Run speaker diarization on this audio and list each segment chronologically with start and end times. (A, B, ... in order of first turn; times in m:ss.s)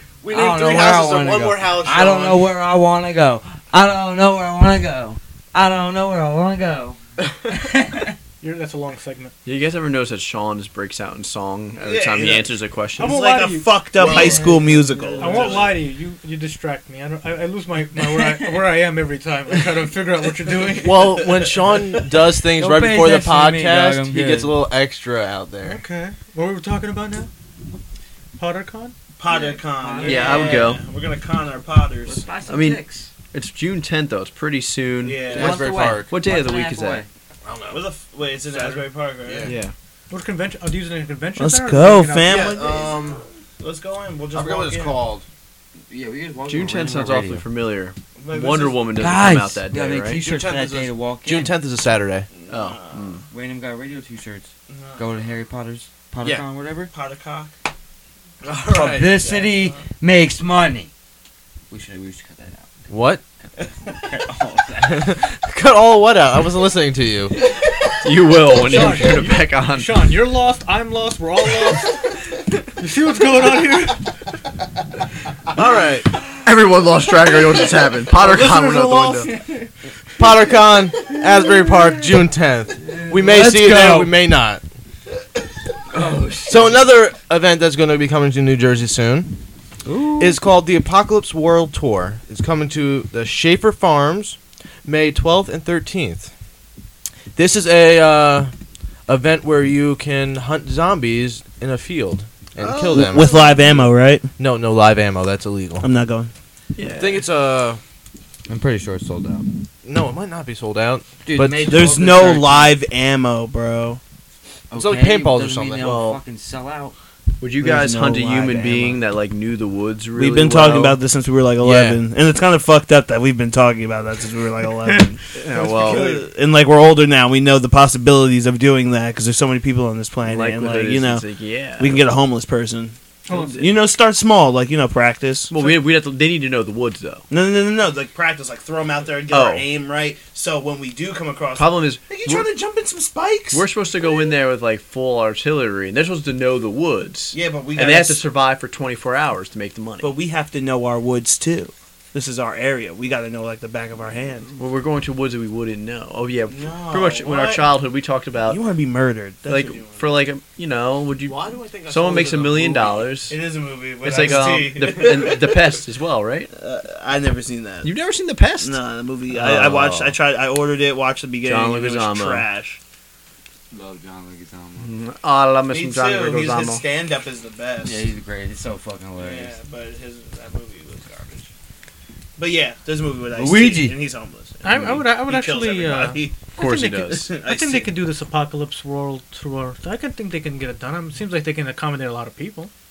0:00.2-0:02.5 A
0:00.3-0:08.2 B
0:08.4-0:09.3 C
0:09.4-0:13.2 D
0:11.8-0:15.8 E
0:13.0-0:21.3 C
0:14.0-0:14.4 D
0:14.0-0:15.6 B
0:18.1-0:18.5 B
0:20.8-0:25.8 A
0:21.4-0:21.8 E
0:22.6-0:24.6 B
0:25.6-0:27.3 C
0:28.4-0:28.9 C
0:29.2-0:32.3 E
0:29.3-0:30.7 B
0:30.0-0:30.8 D
0:32.0-0:33.1 B
0:32.5-0:35.4 D
0:35.0-0:35.6 E
0:35.3-0:36.1 A
0:35.3-0:37.1 B
0:36.1-0:37.0 D
0:37.4-0:37.8 A
0:37.7-0:39.6 E
0:38.5-0:39.6 A
0:39.4-0:39.7 D
0:40.1-0:42.5 C
0:41.4-0:45.0 E
0:42.3-0:43.2 A
0:44.3-0:45.3 A
0:45.9-0:47.4 B
0:46.5-0:50.2 D
0:48.2-0:48.9 E
0:49.0-0:51.5 B
0:50.2-0:52.3 A
0:52.3-0:53.1 E
0:52.5-0:53.2 D
0:53.3-0:56.9 B
0:54.7-0:55.1 E
0:56.9-0:57.5 E
0:58.4-0:59.2 A
0:58.7-1:00.9 B
0:59.1-0:59.8 E
1:01.7-1:02.7 B
1:02.9-1:03.2 A
1:03.9-1:05.1 B
1:04.9-1:07.3 A
1:08.0-1:10.1 D
1:08.6-1:12.2 C
1:12.8-1:14.1 C
1:15.5-1:16.1 A
1:16.4-1:19.3 D
1:18.2-1:19.3 E
1:20.2-1:24.6 A
1:22.8-1:24.1 B
1:25.9-1:26.9 B
1:26.5-1:29.3 A
1:29.8-1:30.4 B
1:30.2-1:36.3 A
1:37.4-1:38.5 A
1:39.1-1:43.3 A
1:42.6-1:43.9 D
1:42.8-1:44.3 E
1:44.4-1:45.9 A
1:45.8-1:46.3 E
1:46.8-1:47.2 D
1:46.9-1:47.8 A
1:48.5-1:49.5 B
1:49.8-1:51.8 A
1:51.2-1:52.8 B
1:51.7-1:54.0 E
1:54.7-1:57.0 B
1:54.7-1:55.9 A
1:55.8-1:56.2 D
1:57.4-2:01.0 D
1:57.6-1:59.0 E
2:00.2-2:11.3 E
2:01.6-2:02.0 A
2:04.8-2:06.2 C
2:05.4-2:06.1 D
2:10.2-2:12.0 D
2:11.8-2:15.8 E
2:13.3-2:13.6 C
2:13.3-2:13.7 D
2:15.5-2:17.2 D
2:17.3-2:24.3 E
2:19.3-2:19.7 D
2:21.6-2:22.5 D
2:23.5-2:30.1 D
2:27.3-2:28.2 E
2:30.0-2:34.5 E
2:34.5-2:38.6 D
2:36.5-2:37.7 E
2:38.5-2:40.2 E
2:39.5-2:43.4 D
2:41.3-2:43.1 A
2:43.3-2:45.8 E
2:44.0-2:46.5 D
2:46.5-2:47.9 E
2:47.8-2:50.2 D
2:48.6-2:52.8 E
2:51.4-2:52.5 D
2:53.7-2:54.9 B
2:54.8-2:56.8 D
2:55.7-2:58.0 E
2:57.8-2:59.6 B
2:59.2-3:01.5 E
3:02.4-3:06.4 E
3:03.4-3:04.0 B
3:04.6-3:12.7 C
3:04.7-3:05.0 D
3:06.6-3:07.3 D
3:07.1-3:08.0 E